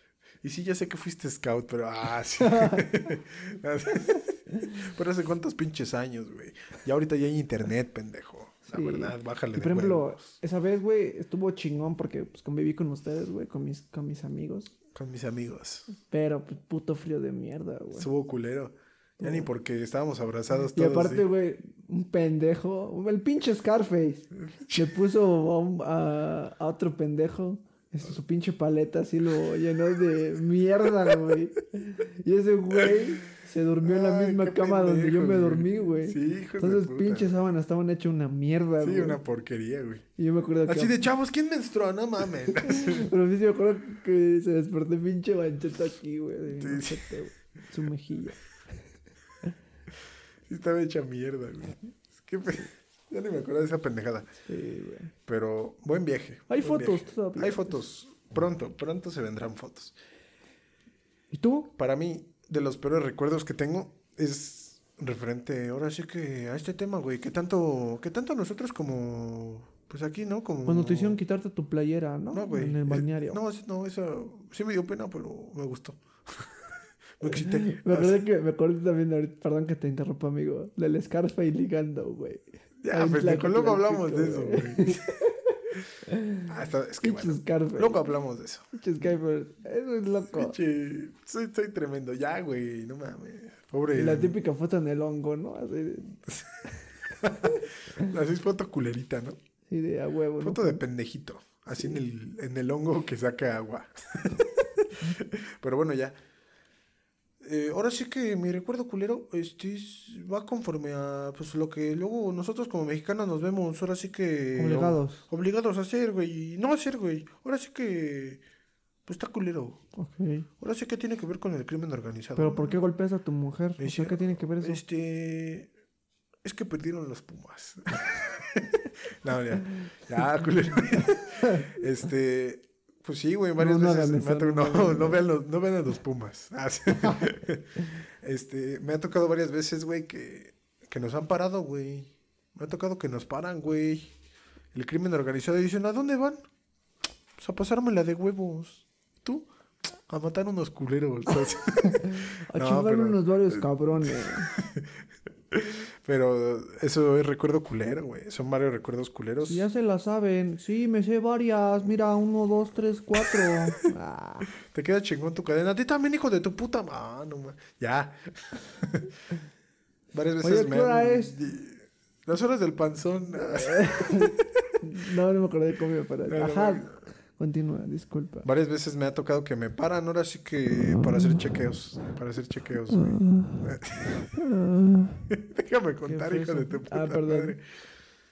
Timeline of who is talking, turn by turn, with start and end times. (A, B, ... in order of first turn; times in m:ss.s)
0:00.4-0:10.3 A
0:02.4-0:02.9 B
0:08.7-0:14.7 B
0:14.9-0:15.9 A
0:16.0-0:18.1 B
0:17.9-0:21.2 A
0:19.2-0:19.5 B
0:20.7-0:39.2 B
0:24.5-0:24.9 A
0:33.8-0:37.3 A
0:38.8-0:40.0 A
0:40.2-0:41.0 B
0:40.6-0:43.1 A
0:42.6-0:48.4 B
0:46.5-0:47.1 A
0:50.5-0:54.3 A
0:54.4-0:55.1 B
0:55.3-0:59.9 A
0:56.5-0:57.8 B
1:01.3-1:01.7 B
1:01.8-1:11.2 A
1:10.6-1:13.4 B
1:12.3-1:16.6 A
1:17.2-1:18.2 A
1:17.3-1:26.4 B
1:22.8-1:25.0 A
1:26.4-1:28.6 A
1:27.0-1:28.0 B
1:28.7-1:30.6 B
1:30.3-1:34.4 A
1:33.9-1:36.2 B
1:37.2-1:39.4 A
1:37.3-1:37.5 B
1:39.7-1:40.8 B
1:40.4-1:46.2 A
1:47.4-1:58.4 A
1:54.6-1:55.2 B
1:59.0-1:59.8 A
2:00.0-2:00.5 B
2:00.6-2:02.7 A
2:02.4-2:04.8 B
2:03.8-2:05.7 A
2:06.4-2:24.1 A
2:13.6-2:15.2 B
2:24.7-2:26.4 A
2:27.4-2:34.9 A
2:31.7-2:34.5 B
2:35.5-2:39.6 A
2:39.4-2:44.5 B
2:44.6-2:49.2 A
2:50.1-2:54.4 A
2:50.4-2:51.4 B
2:53.4-2:58.5 B
2:56.3-2:57.0 A
2:58.4-3:04.3 A
3:00.8-3:01.5 B
3:02.9-3:03.8 B
3:04.3-3:05.3 B
3:05.3-3:07.6 A
3:06.0-3:07.6 B